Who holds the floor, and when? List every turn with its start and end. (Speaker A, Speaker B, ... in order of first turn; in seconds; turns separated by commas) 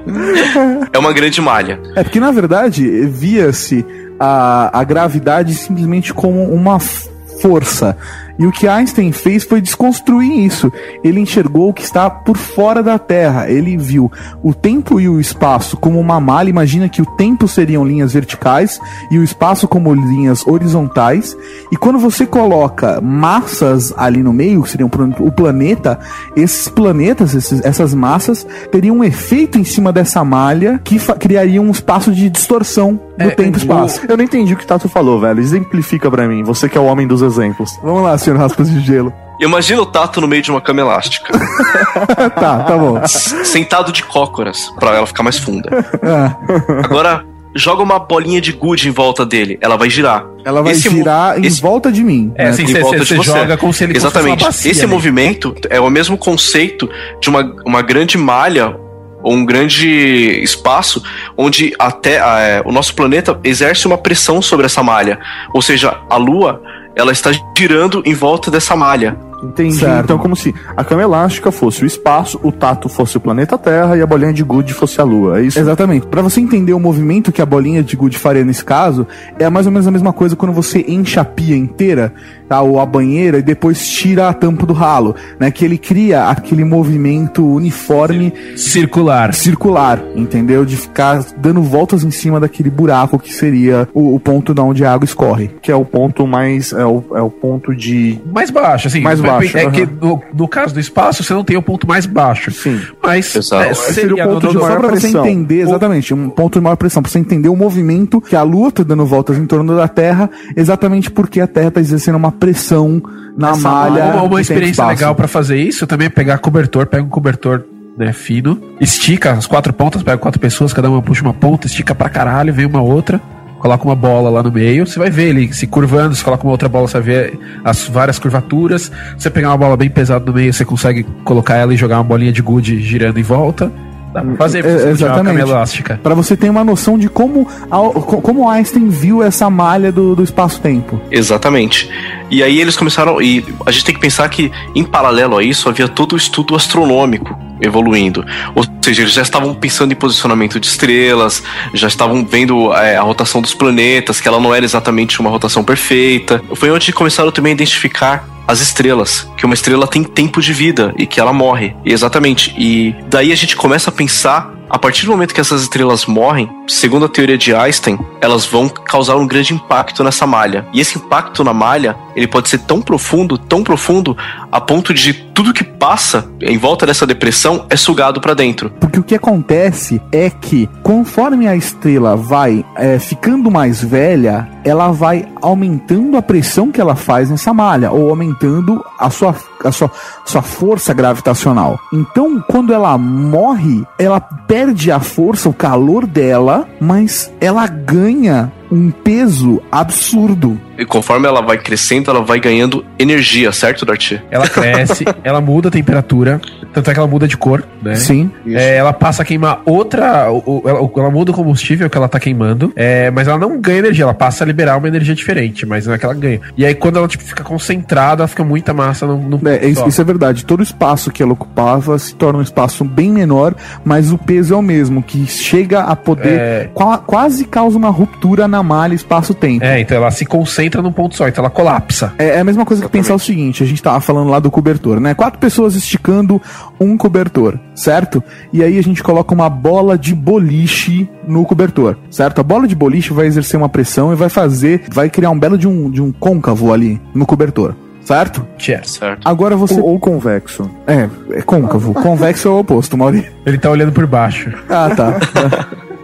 Speaker A: 0.3-1.8, Speaker B: 0.4-0.7, Speaker B: 2.0-34.0, Speaker C: 33.2-34.0, Speaker D: 34.0-37.8, Speaker B: 37.8-39.2, Speaker A: 39.4-41.4, Speaker B: 41.6-43.1, Speaker D: 41.8-42.3, Speaker A: 43.1-45.8, Speaker B: 46.0-46.4, Speaker D: 46.5-46.9, Speaker A: 46.8-51.6, Speaker B: 50.5-52.8, Speaker C: 52.4-55.1, Speaker A: 52.6-69.2, Speaker D: 69.4-75.7, Speaker B: 69.7-70.3, Speaker B: 75.5-88.4, Speaker C: 88.5-89.4, Speaker B: 89.3-95.5, Speaker D: 95.6-98.2, Speaker C: 98.2-104.7, Speaker D: 99.0-99.9, Speaker D: 102.5-102.9, Speaker A: 103.3-103.8, Speaker D: 103.7-105.4, Speaker B: 104.5-115.2, Speaker C: 113.5-136.0, Speaker D: 113.9-114.2, Speaker B: 134.4-141.0, Speaker A: 141.1-178.7, Speaker B: 178.8-200.6, Speaker A: 200.8-204.3, Speaker C: 204.3-220.0, Speaker B: 207.9-208.5, Speaker B: 219.4-229.7, Speaker C: 226.2-226.7, Speaker C: 229.6-232.2, Speaker B: 232.2-248.5, Speaker A: 232.8-233.2, Speaker C: 248.6-248.9, Speaker A: 248.9-249.3, Speaker B: 249.2-249.9, Speaker D: 249.7-250.8, Speaker B: 250.9-253.3, Speaker C: 253.4-254.6, Speaker B: 254.7-255.6